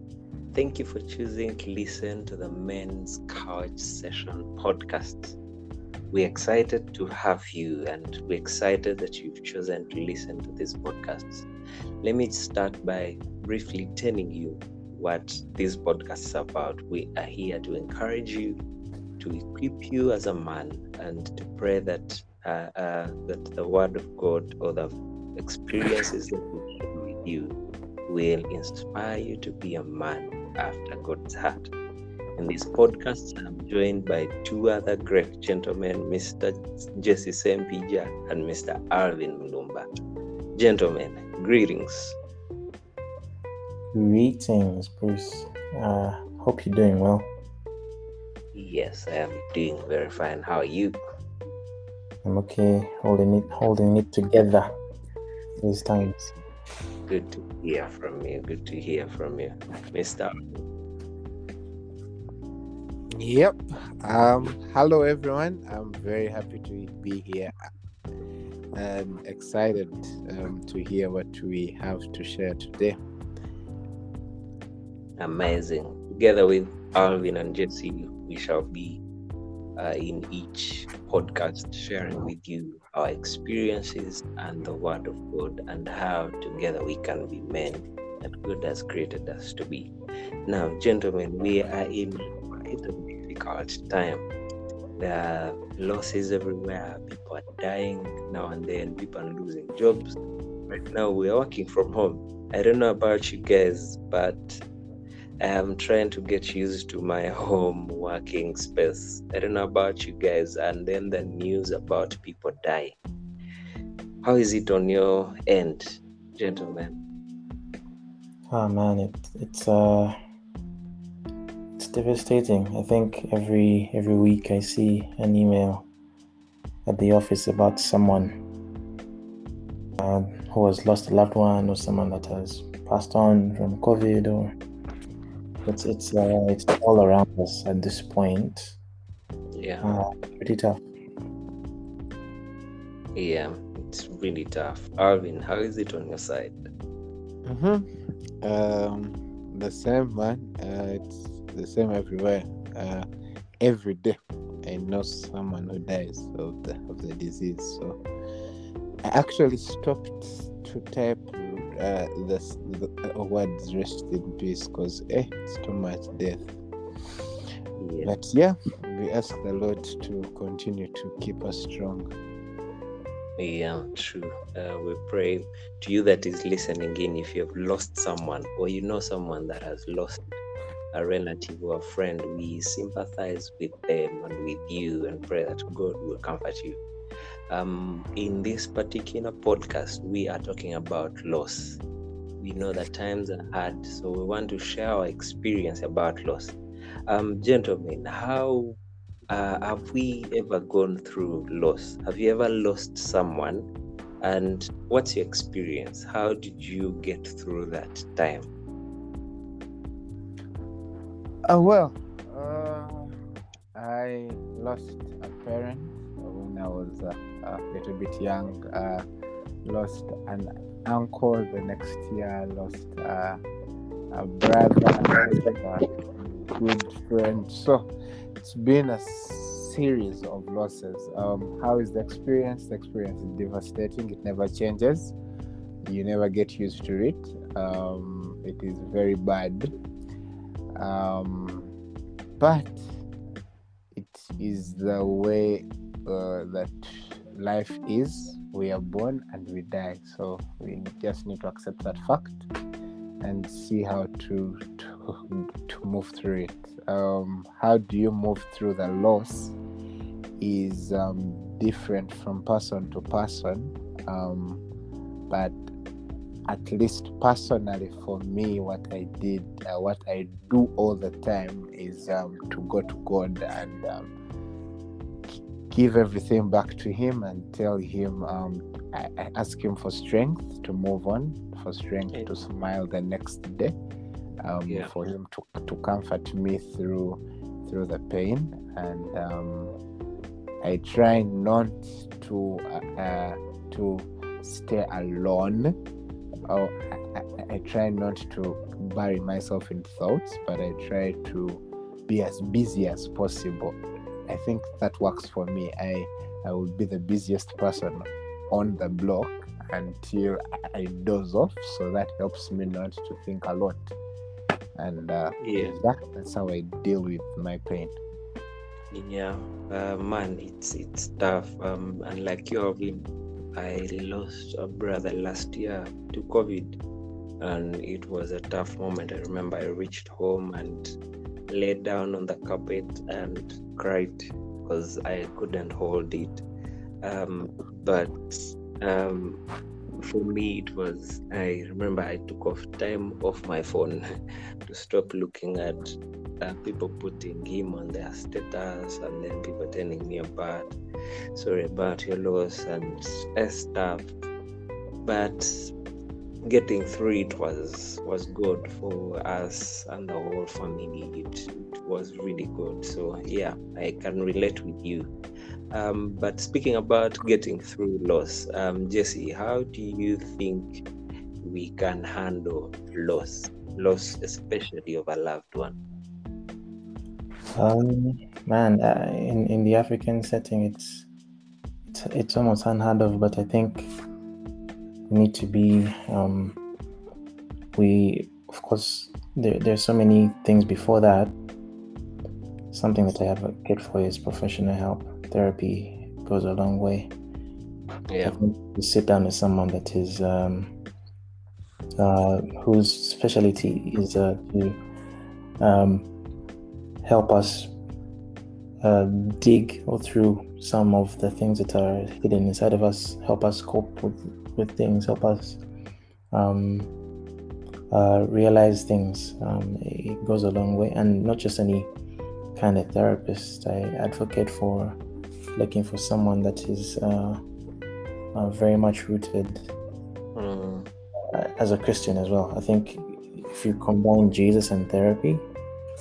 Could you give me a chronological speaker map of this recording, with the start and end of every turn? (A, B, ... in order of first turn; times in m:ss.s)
0:00.5-0:05.4 A
0:06.1-0:11.5 A
0:12.0-0:18.6 A
0:19.2-0:27.6 A
0:28.1-0:31.7 A
0:32.4-0:39.9 A
0:40.6-0:42.2 A
0:43.9-0:47.3 B
0:48.5-0:51.0 A
0:52.2-0:54.8 B
0:55.6-0:56.3 B
0:57.1-1:00.6 A
1:03.1-1:07.5 C
1:08.8-1:13.0 C
1:15.2-1:19.0 A
1:19.8-1:29.9 A
1:30.5-1:34.2 A
1:35.0-1:40.2 A
1:40.7-1:44.6 A
1:45.4-1:53.0 A
1:54.2-1:57.0 A
1:58.5-2:00.2 B
2:01.8-2:05.9 B
2:06.9-2:08.4 B
2:10.0-2:14.5 B
2:15.7-2:18.8 B
2:19.6-2:19.9 A
2:19.8-2:20.8 B
2:23.2-2:26.6 A
2:27.4-2:27.9 C
2:28.4-2:33.1 C
2:33.6-2:38.0 C
2:39.0-2:46.5 C
2:47.8-2:48.2 A
2:48.0-2:52.1 C
2:53.4-3:00.3 A
3:00.9-3:06.8 A
3:07.5-3:11.8 A
3:12.4-3:16.6 A
3:17.1-3:18.8 A
3:19.3-3:23.7 A
3:24.2-3:28.5 A
3:31.5-3:33.2 C
3:33.8-3:39.0 C
3:39.6-3:43.4 C
3:44.1-3:47.9 C
3:48.4-3:55.2 C
3:55.8-3:59.8 C
4:00.8-4:01.7 C
4:02.4-4:02.9 C
4:03.9-4:12.4 C
4:13.2-4:19.6 C
4:20.4-4:24.6 C
4:25.3-4:25.6 C
4:26.5-4:34.1 C
4:35.3-4:43.8 C
4:44.4-4:49.8 C
4:50.6-4:55.8 C
4:56.5-5:03.8 C
5:04.3-5:14.0 C
5:14.8-5:18.0 C
5:15.4-5:15.8 A
5:18.9-5:26.8 A
5:27.4-5:30.9 A
5:31.5-5:36.4 A
5:37.0-5:39.4 A
5:40.0-5:44.0 A
5:44.7-5:50.7 A
5:51.4-5:54.1 A
5:55.0-5:55.7 A
5:56.5-6:05.1 A
6:05.7-6:10.9 A
6:11.4-6:15.8 A
6:17.6-6:21.1 B
6:21.9-6:23.9 B
6:25.1-6:26.6 B
6:27.8-6:31.4 B
6:32.7-6:37.1 B
6:38.1-6:38.4 A
6:38.2-6:40.7 B
6:42.0-6:44.8 B
6:45.6-6:46.1 B
6:47.0-6:47.7 B
6:48.8-6:55.6 B
6:56.3-6:56.9 B
6:57.9-7:01.9 B
7:02.6-7:05.0 B
7:05.6-7:07.4 B
7:08.4-7:09.7 B
7:10.4-7:10.9 A
7:11.3-7:15.5 B